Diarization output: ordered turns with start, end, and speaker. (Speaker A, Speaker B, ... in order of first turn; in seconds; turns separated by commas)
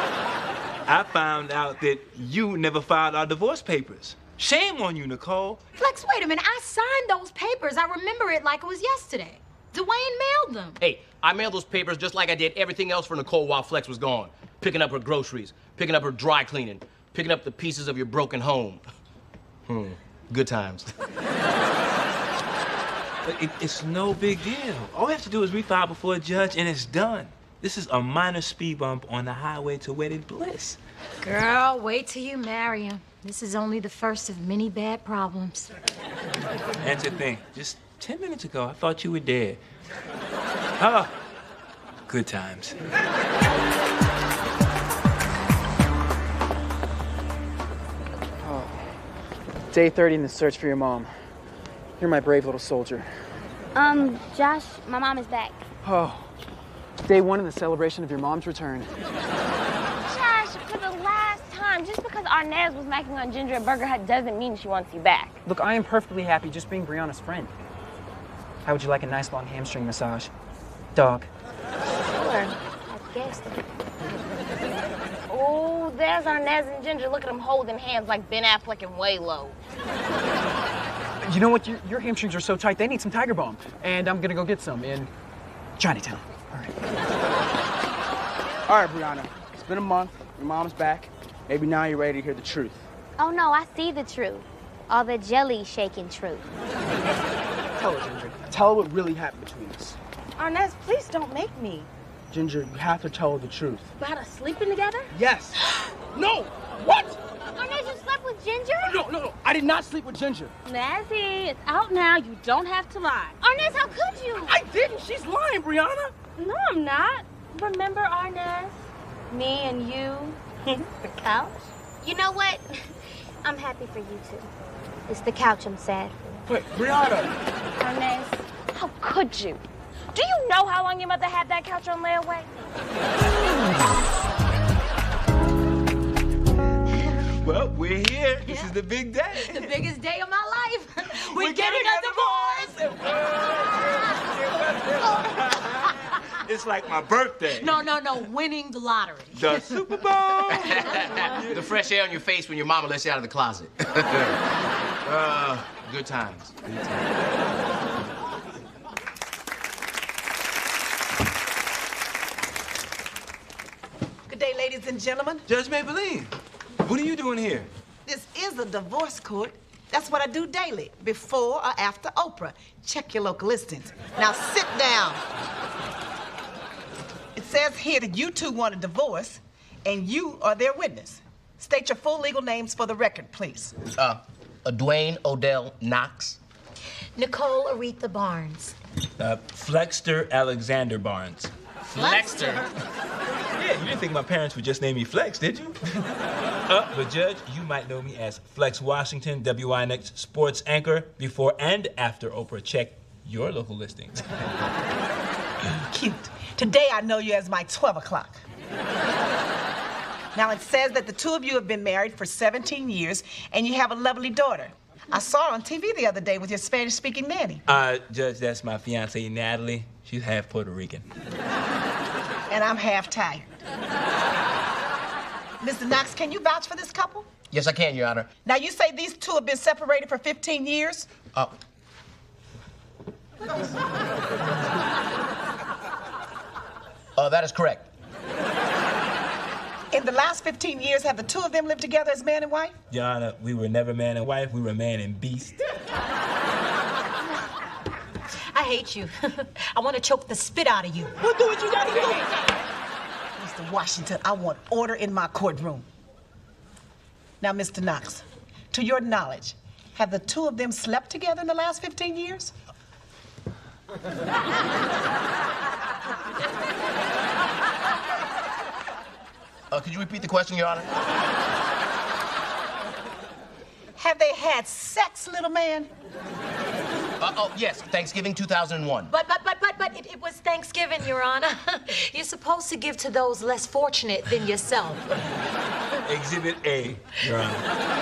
Speaker A: 0.8-5.6, Speaker B: 5.8-10.8, Speaker C: 10.8-18.8, Speaker C: 19.7-20.9, Speaker A: 23.2-30.8, Speaker B: 31.2-35.7, Speaker A: 36.8-39.6, Speaker A: 40.8-41.1, Speaker A: 42.1-42.8, Speaker D: 48.4-48.7, Speaker D: 49.7-51.1, Speaker D: 52.0-53.1, Speaker E: 53.7-55.6, Speaker D: 55.9-56.2, Speaker D: 57.1-58.8, Speaker F: 60.1-65.4, Speaker D: 67.1-67.5, Speaker E: 72.3-73.7, Speaker F: 75.3-79.5, Speaker D: 81.3-83.6, Speaker G: 88.7-92.8, Speaker E: 93.2-96.5, Speaker G: 98.4-100.0, Speaker F: 100.4-101.7, Speaker G: 102.3-103.9, Speaker F: 104.0-105.1, Speaker G: 105.1-107.2, Speaker E: 107.5-109.0, Speaker G: 108.8-110.5, Speaker F: 110.7-113.3, Speaker E: 113.4-114.6, Speaker G: 114.5-116.1, Speaker F: 116.4-118.7, Speaker E: 119.3-120.4, Speaker E: 121.0-121.5, Speaker E: 122.0-122.9, Speaker E: 123.4-124.5, Speaker E: 125.1-126.2, Speaker G: 126.5-127.3, Speaker F: 127.8-129.6, Speaker F: 130.1-132.5, Speaker A: 137.3-139.9, Speaker B: 138.4-138.7, Speaker B: 139.3-142.8, Speaker A: 141.1-148.0, Speaker B: 147.5-149.8, Speaker A: 149.3-151.7, Speaker C: 150.6-154.3, Speaker C: 155.1-156.5, Speaker H: 164.3-165.4, Speaker A: 165.5-166.3, Speaker A: 166.8-167.7, Speaker H: 168.0-175.2, Speaker H: 177.3-183.8, Speaker C: 184.0-186.4, Speaker B: 187.2-188.7, Speaker A: 189.2-191.5, Speaker C: 191.9-192.6, Speaker B: 192.0-192.6, Speaker A: 193.6-195.8, Speaker A: 196.7-204.3, Speaker H: 205.8-208.4, Speaker H: 210.3-217.6, Speaker A: 217.7-221.1, Speaker H: 222.5-223.5, Speaker H: 225.6-227.3, Speaker C: 227.5-228.3, Speaker H: 228.4-231.1, Speaker C: 237.2-237.8, Speaker H: 239.9-242.7, Speaker A: 242.9-245.6, Speaker B: 248.5-249.1, Speaker B: 249.7-251.1, Speaker H: 253.4-255.8, Speaker H: 257.4-262.5, Speaker C: 269.7-270.9, Speaker H: 274.0-275.9, Speaker C: 277.2-279.1, Speaker B: 279.1-285.1, Speaker A: 286.1-287.6